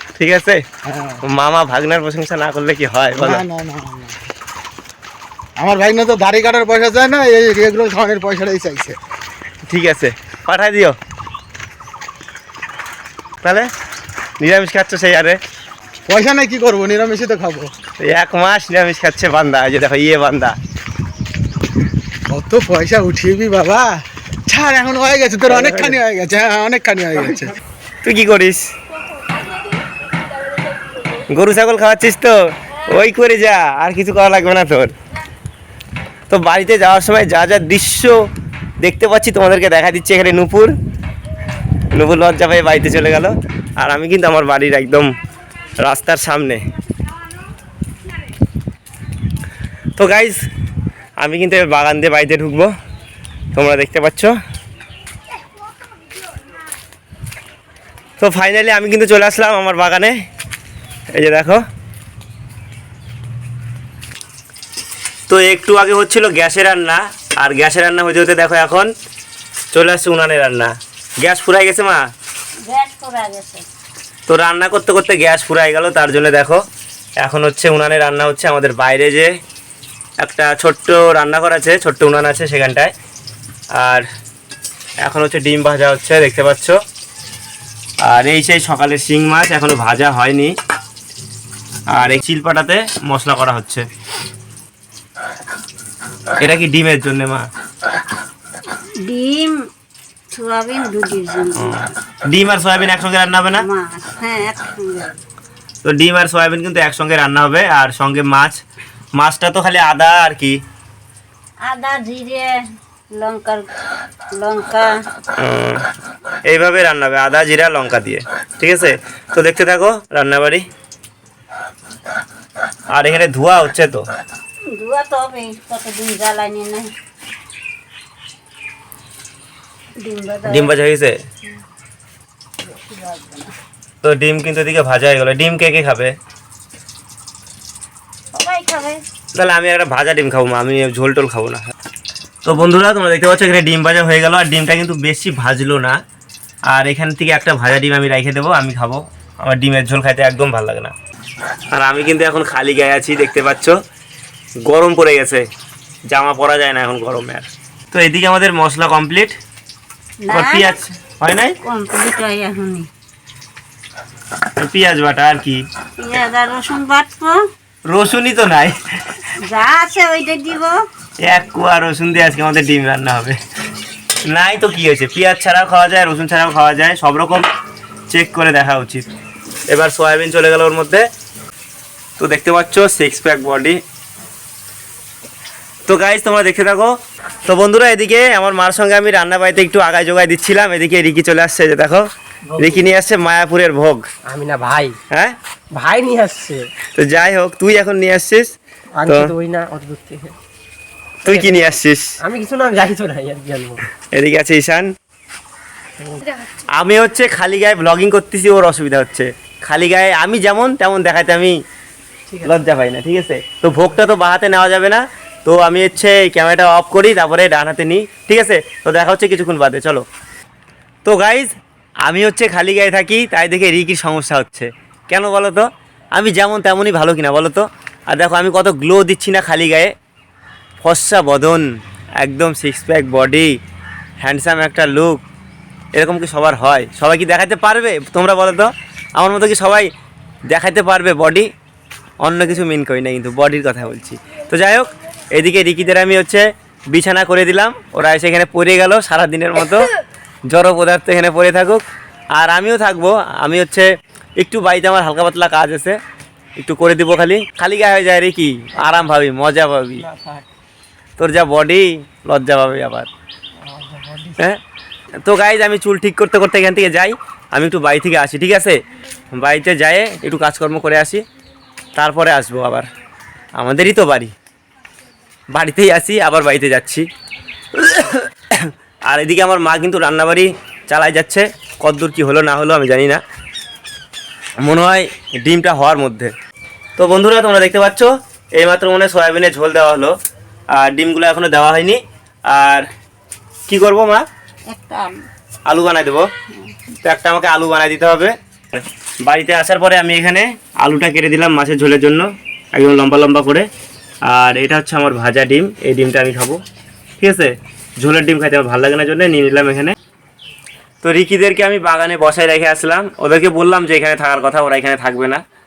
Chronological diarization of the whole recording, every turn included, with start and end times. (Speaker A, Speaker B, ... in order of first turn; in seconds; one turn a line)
Speaker A: 0.2-0.6
Speaker B: 0.8-1.2
Speaker A: 1.2-3.4
Speaker B: 3.1-4.2
Speaker B: 5.6-9.0
Speaker A: 9.7-11.0
Speaker A: 13.4-13.7
Speaker A: 14.4-15.4
Speaker B: 16.1-17.7
Speaker A: 18.0-20.6
Speaker B: 22.3-27.5
Speaker A: 28.0-28.7
Speaker A: 31.3-34.9
Speaker A: 36.3-38.2
Speaker A: 38.8-40.7
Speaker A: 41.9-45.1
Speaker A: 45.8-46.6
Speaker A: 50.0-50.4
Speaker A: 51.2-52.7
Speaker A: 53.5-54.4
Speaker A: 58.2-60.1
Speaker A: 61.1-61.6
Speaker A: 65.3-68.9
Speaker A: 69.7-72.0
Speaker C: 72.6-73.6
Speaker A: 74.3-76.6
Speaker A: 77.2-79.3
Speaker A: 80.2-82.9
Speaker A: 83.8-84.0
Speaker A: 85.0-86.8
Speaker A: 88.0-90.5
Speaker A: 91.9-93.8
Speaker A: 96.4-97.5
Speaker C: 99.0-99.5
Speaker C: 100.3-101.8
Speaker A: 101.6-103.7
Speaker C: 103.6-105.2
Speaker A: 105.8-108.6
Speaker A: 109.2-110.6
Speaker C: 111.6-112.6
Speaker C: 113.1-113.7
Speaker C: 114.3-115.0
Speaker A: 115.3-115.8
Speaker A: 116.5-120.7
Speaker A: 122.9-124.0
Speaker C: 124.7-126.9
Speaker C: 130.0-130.8
Speaker A: 130.4-131.2
Speaker C: 132.6-133.5
Speaker A: 134.0-136.1
Speaker C: 138.3-139.0
Speaker A: 139.3-141.6
Speaker A: 142.4-146.0
Speaker A: 146.7-150.9
Speaker A: 151.7-153.8
Speaker A: 154.6-155.4
Speaker A: 156.1-159.4
Speaker C: 160.2-160.8
Speaker A: 160.3-161.6
Speaker C: 161.6-162.9
Speaker A: 164.6-165.7
Speaker C: 166.0-167.4
Speaker A: 167.9-168.8
Speaker C: 169.4-170.8
Speaker A: 171.2-173.4
Speaker A: 174.3-177.4
Speaker A: 178.1-179.1
Speaker A: 179.7-181.0
Speaker A: 182.2-183.8
Speaker A: 185.9-186.9
Speaker A: 187.4-192.1
Speaker D: 192.5-192.9
Speaker A: 192.6-194.0
Speaker D: 194.2-195.0
Speaker A: 195.1-195.3
Speaker D: 195.7-196.7
Speaker A: 196.9-199.3
Speaker D: 198.9-200.3
Speaker D: 201.2-203.8
Speaker A: 201.2-202.2
Speaker A: 204.1-204.9
Speaker A: 206.7-211.6
Speaker A: 212.4-220.0
Speaker A: 221.0-221.5
Speaker A: 222.1-229.9
Speaker A: 230.8-231.6
Speaker A: 232.2-233.5
Speaker A: 234.2-235.2
Speaker A: 235.9-239.9
Speaker A: 240.5-241.5
Speaker A: 242.2-249.9
Speaker A: 250.5-251.8
Speaker A: 252.3-256.0
Speaker A: 256.6-260.0
Speaker A: 261.2-263.1
Speaker D: 263.9-264.4
Speaker A: 265.2-268.8
Speaker A: 269.3-271.2
Speaker A: 271.9-272.9
Speaker A: 273.6-274.3
Speaker A: 275.5-277.1
Speaker A: 277.7-283.2
Speaker A: 284.6-286.3
Speaker A: 287.0-290.1
Speaker A: 290.7-292.9
Speaker A: 293.7-294.2
Speaker C: 294.7-295.1
Speaker A: 295.7-296.3
Speaker A: 297.0-303.7
Speaker A: 304.2-306.6
Speaker A: 307.2-309.9
Speaker A: 311.0-315.4